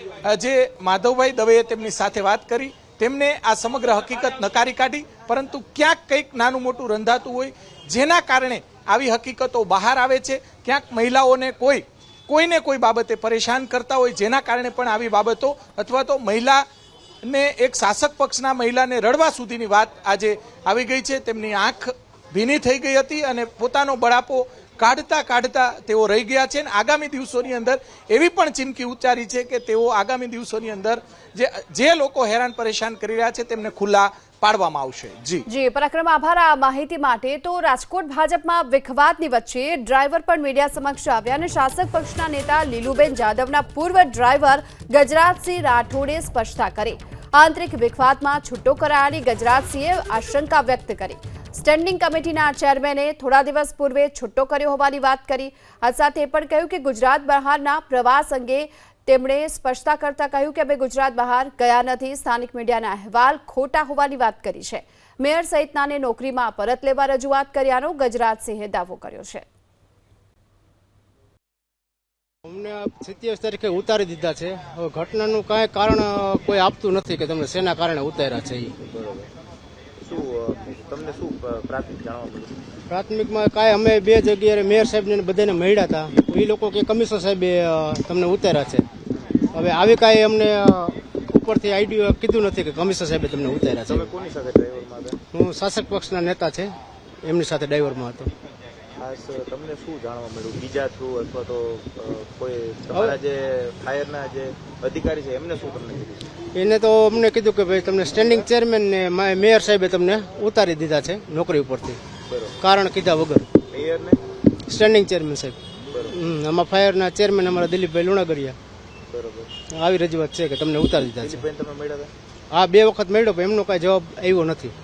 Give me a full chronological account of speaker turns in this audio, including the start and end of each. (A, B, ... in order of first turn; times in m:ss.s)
0:00.3-0:16.6 A
0:17.2-0:35.4 A
0:35.5-1:09.4 B
1:12.4-1:18.7 C
1:18.9-1:19.3 D
1:20.0-1:22.6 D
1:22.9-1:28.8 C
1:29.5-1:34.1 C
1:33.9-1:35.2 D
1:35.3-1:36.7 C
1:37.2-1:38.3 C
1:39.0-1:46.2 D
1:46.5-1:52.0 C
1:52.3-1:52.6 D
1:52.6-1:53.5 C
1:53.7-1:54.2 D
1:54.7-1:58.6 C
1:59.1-1:59.5 D
1:59.7-2:01.5 C
2:01.0-2:02.1 D
2:02.5-2:04.7 C